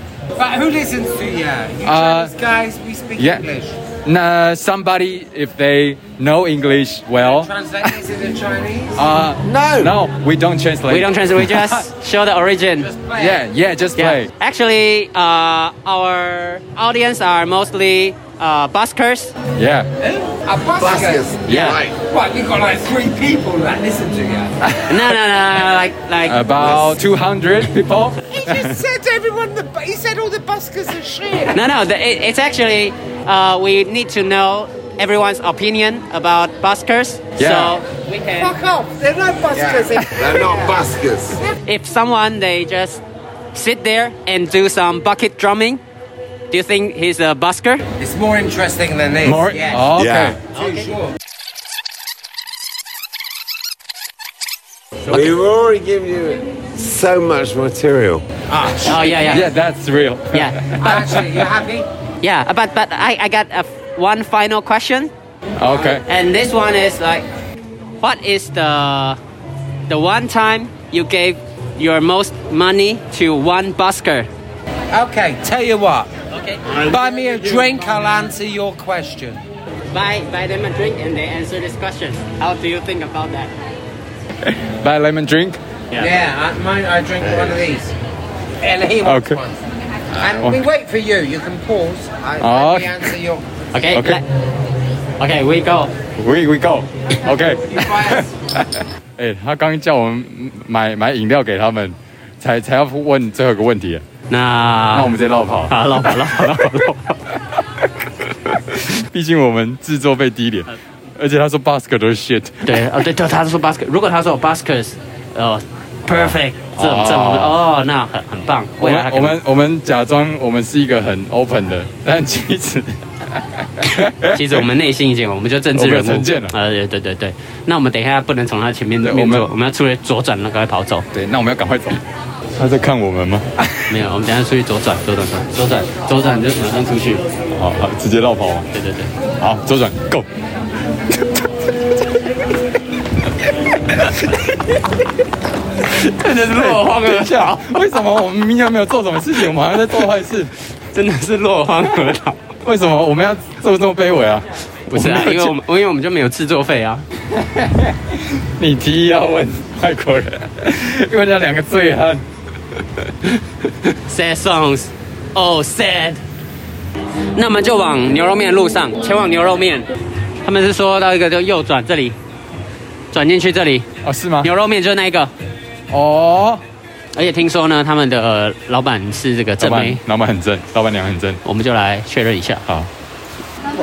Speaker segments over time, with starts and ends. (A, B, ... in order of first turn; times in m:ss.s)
0:00.4-0:03.8 A
0:01.8-0:02.3 B
0:03.2-0:03.4 B
0:04.0-0:07.9 B
0:07.2-0:09.1 A
0:09.0-0:11.8 B
0:09.4-0:10.0 C
0:10.9-0:12.9 D
0:12.8-0:13.4 A
0:13.2-0:14.3 B
0:14.0-0:19.3 D
0:19.6-0:19.9 B
0:20.0-0:24.6 A
0:20.8-0:22.0 C
0:21.5-0:21.8 D
0:24.7-0:25.0 B
0:24.8-0:26.4 D
0:26.2-0:28.8 B
0:28.3-0:31.6 A
0:31.5-0:38.5 D
0:37.4-0:37.8 B
0:38.3-0:40.8 A
0:39.5-0:41.4 C
0:41.6-0:43.0 D
0:43.5-0:45.8 D
0:46.5-0:47.8 D
0:48.0-0:49.9 A
0:49.2-0:50.4 B
0:49.9-0:50.4 C
0:50.5-0:50.9 D
0:50.5-0:51.1 A
0:55.1-0:58.2 C
0:58.5-0:59.4 A
0:58.8-0:59.4 D
0:59.2-1:01.4 B
1:00.3-1:01.1 D
1:00.8-1:01.9 A
1:02.2-1:05.1 D
1:05.6-1:06.0 B
1:05.6-1:06.0 A
1:06.0-1:07.3 D
1:08.0-1:09.2 D
1:09.9-1:14.3 D
1:14.9-1:16.1 A
1:16.3-1:17.7 D
1:16.7-1:19.4 A
1:19.9-1:23.5 D
1:24.4-1:25.6 B
1:26.0-1:27.9 A
1:28.6-1:29.6 A
1:29.0-1:29.4 B
1:30.1-1:33.4 A
1:32.4-1:33.1 B
1:33.7-1:34.2 D
1:33.9-1:34.2 B
1:35.2-1:35.9 D
1:36.2-1:44.0 B
1:37.7-1:38.3 A
1:44.3-1:45.1 D
1:44.9-1:46.8 B
1:45.7-1:47.2 D
1:48.5-1:52.7 B
1:52.6-1:59.4 D
1:56.8-1:57.6 B
1:58.8-2:04.7 B
2:04.3-2:11.0 D
2:05.7-2:06.5 B
2:09.0-2:09.5 B
2:11.1-2:12.0 B
2:12.6-2:13.9 B
2:13.9-2:17.2 D
2:17.5-2:18.7 B
2:18.7-2:19.1 D
2:19.4-2:20.2 B
2:21.2-2:21.4 B
2:23.9-2:24.8 B
2:25.9-2:30.5 B
2:26.2-2:27.6 D
2:30.9-2:32.4 D
2:32.6-2:35.5 B
2:34.9-2:37.0 D
2:37.4-2:42.2 B
2:44.1-2:46.2 D
2:47.3-2:49.9 D
2:50.4-2:52.2 D
2:53.1-2:53.9 D
2:54.0-2:54.5 B
2:54.4-2:55.3 D
2:55.9-2:56.6 B
2:57.1-3:00.0 D
2:59.6-3:01.4 B
3:01.4-3:02.6 D